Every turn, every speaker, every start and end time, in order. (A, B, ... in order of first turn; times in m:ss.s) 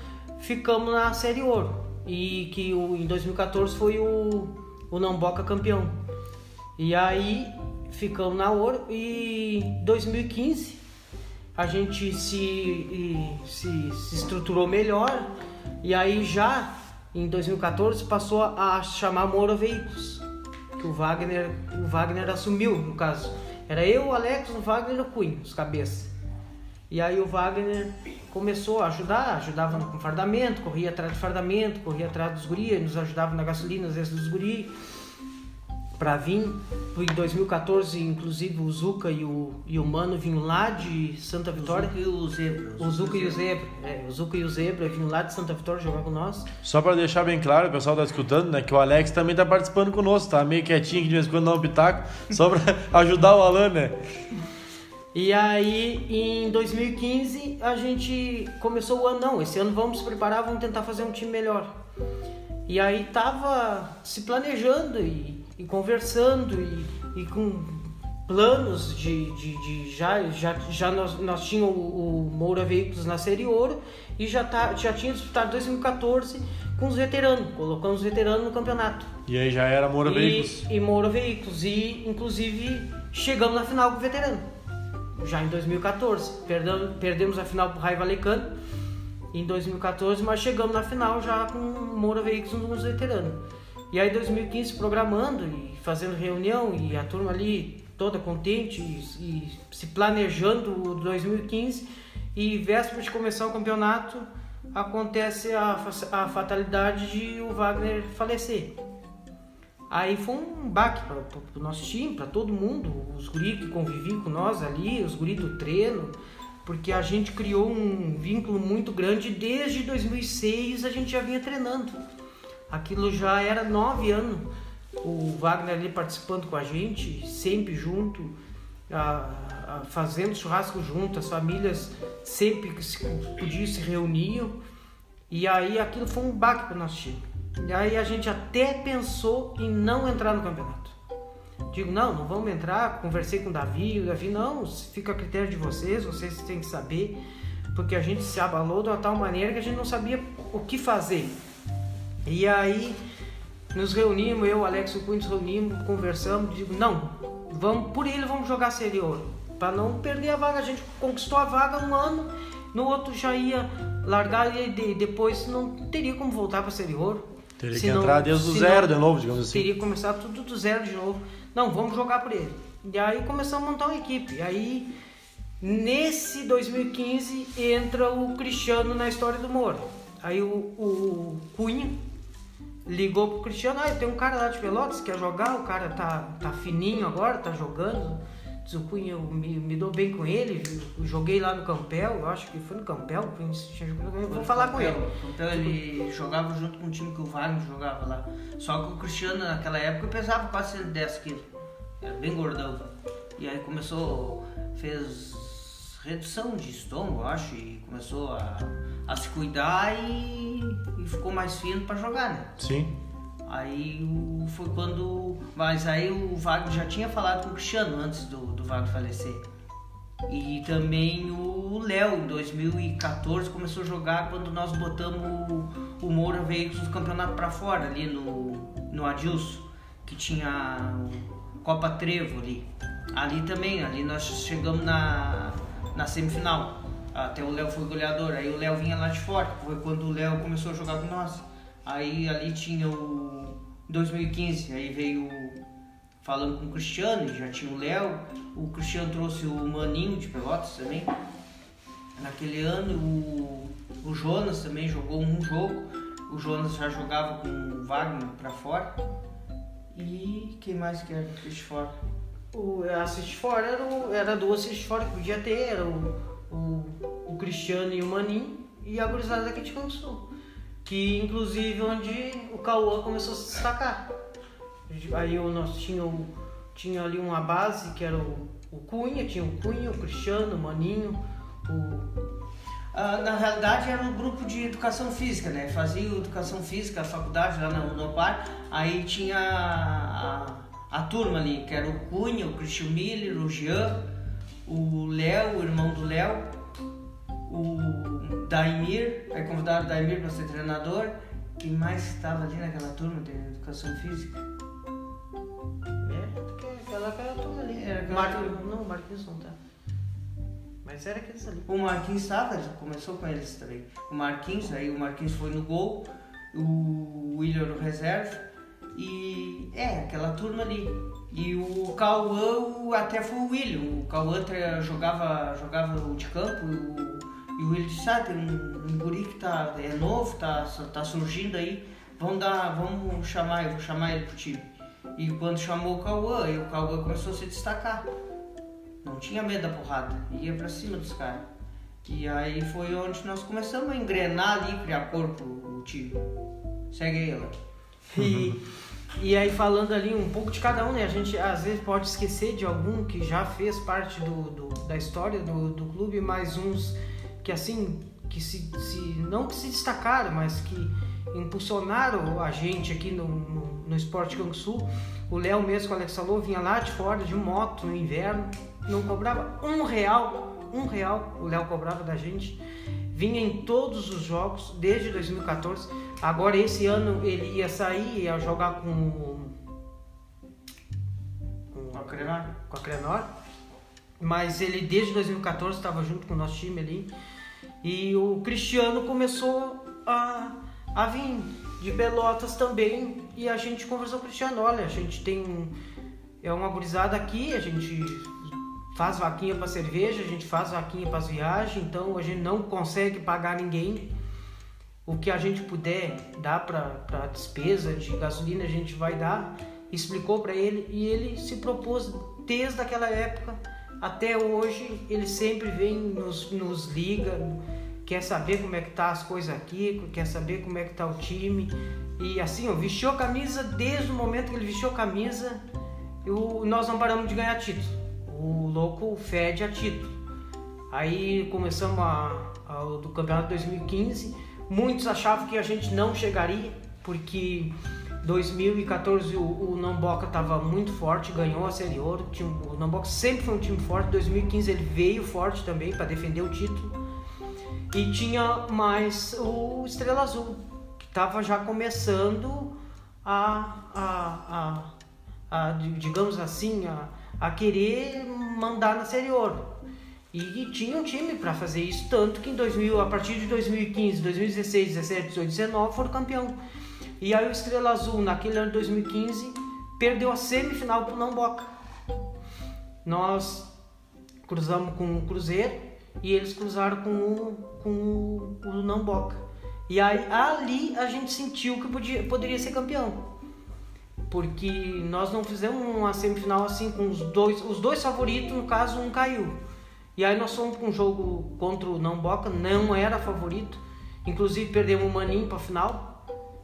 0:00.4-0:05.9 A
0:06.8-0:10.8 A
0:11.6-0:15.3 A
0:15.8-0:20.2 A
0:20.8-0:26.1 A
0:26.9-0:34.7 A
0:36.0-0:41.9 A
0:41.6-0:43.4 B
0:42.8-0:46.5 A
0:46.6-0:53.9 C
0:55.1-1:01.7 A
1:02.7-1:19.1 A
1:19.2-1:20.6 C
1:20.0-1:24.4 A
1:25.2-1:28.5 A
1:29.3-1:48.7 A
1:49.9-2:01.9 A
2:02.7-2:04.5 A
2:05.0-2:08.3 A
2:08.9-2:14.5 A
2:15.3-2:20.9 A
2:21.7-2:27.2 A
2:27.7-2:31.3 A
2:32.2-2:33.0 A
2:33.7-2:48.9 A
2:47.6-2:49.7 C
2:49.5-2:54.9 A
2:55.6-3:02.0 A
3:02.8-3:15.0 A
3:14.3-3:21.5 B
3:22.0-3:32.5 B
3:32.6-3:32.9 C
3:33.4-3:39.4 B
3:40.3-4:05.6 B
4:06.2-4:11.1 B
4:12.2-4:18.9 B
4:19.9-4:22.0 B
4:22.5-4:30.2 A
4:30.8-4:34.1 A
4:34.9-4:42.1 A
4:42.9-4:54.0 B
4:54.6-4:56.5 B
4:57.5-5:04.4 B
5:06.0-5:09.6 A
5:07.5-5:08.6 B
5:10.8-5:11.7 A
5:11.7-5:38.1 B
5:39.0-5:41.4 B
5:42.0-5:46.2 B
5:46.9-5:47.5 B
5:48.1-5:48.6 A
5:48.2-5:48.5 C
5:49.2-6:12.6 A
6:13.1-6:19.5 A
6:21.7-6:23.3 A
6:21.9-6:22.5 B
6:24.2-6:27.1 A
6:27.8-6:35.7 A
6:36.4-6:38.4 A
6:38.9-6:44.1 A
6:45.0-7:05.6 A
7:06.2-7:10.1 A
7:10.9-7:27.0 A
7:27.9-7:32.7 A
7:33.2-7:34.9 A
7:35.5-7:39.7 A
7:40.3-7:46.5 A
7:47.2-7:51.7 A
7:53.0-7:53.7 A
7:54.4-8:03.2 A
8:04.3-8:09.5 A
8:10.2-8:16.1 A